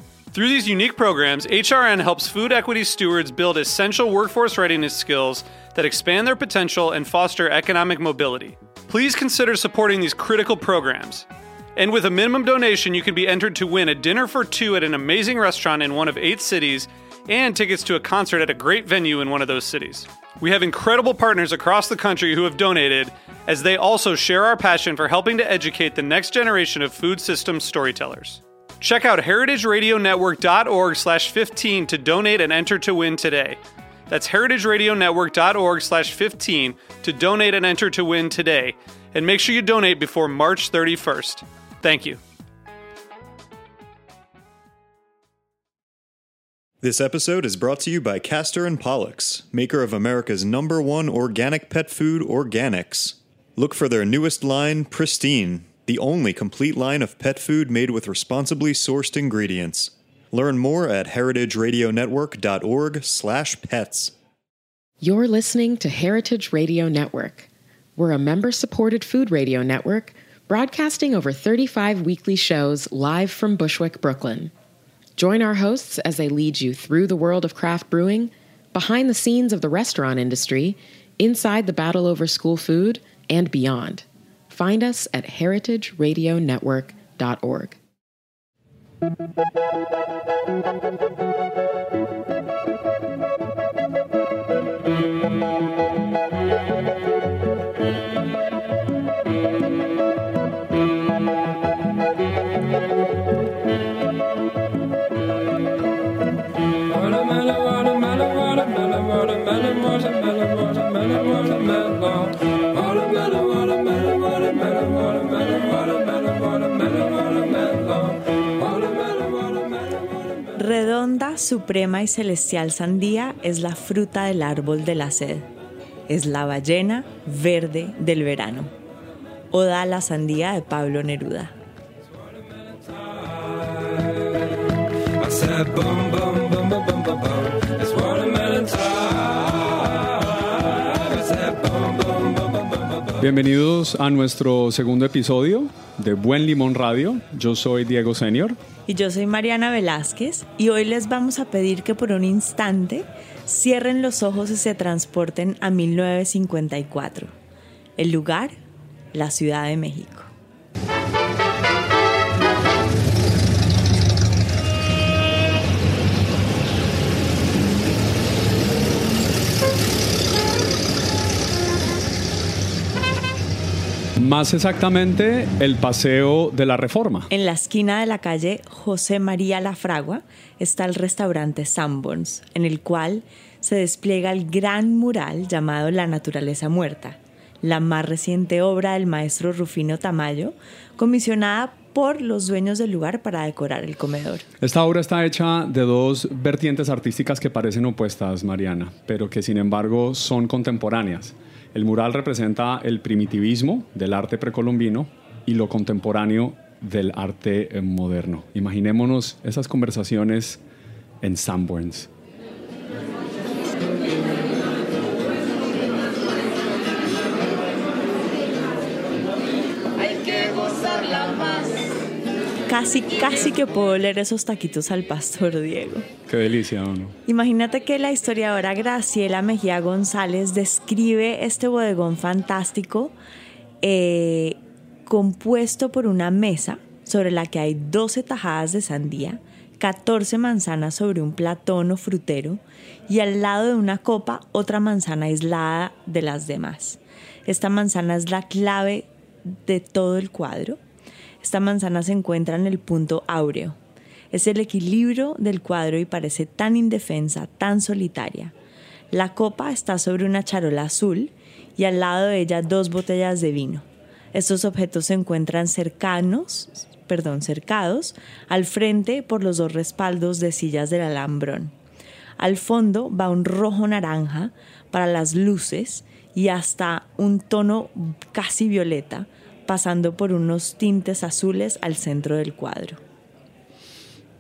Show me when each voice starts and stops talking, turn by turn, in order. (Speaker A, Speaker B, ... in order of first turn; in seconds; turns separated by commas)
Speaker A: 0.3-42.2, Speaker B: 46.8-64.1, Speaker C: 65.0-74.5, Speaker C: 75.2-87.8, Speaker D: 120.5-125.5, Speaker D: 126.1-128.7, Speaker D: 129.5-131.5, Speaker E: 143.2-148.6, Speaker D: 148.9-157.3, Speaker D: 158.0-158.6, Speaker D: 159.1-160.3, Speaker E: 174.2-177.3, Speaker D: 177.3-194.4, Speaker E: 194.6-210.6, Speaker E: 211.2-212.1, Speaker D: 222.7-226.1, Speaker E: 226.3-227.2, Speaker D: 227.3-233.1, Speaker D: 233.8-250.8, Speaker D: 251.4-253.8, Speaker D: 254.3-258.5, Speaker D: 259.1-271.7, Speaker D: 272.4-283.0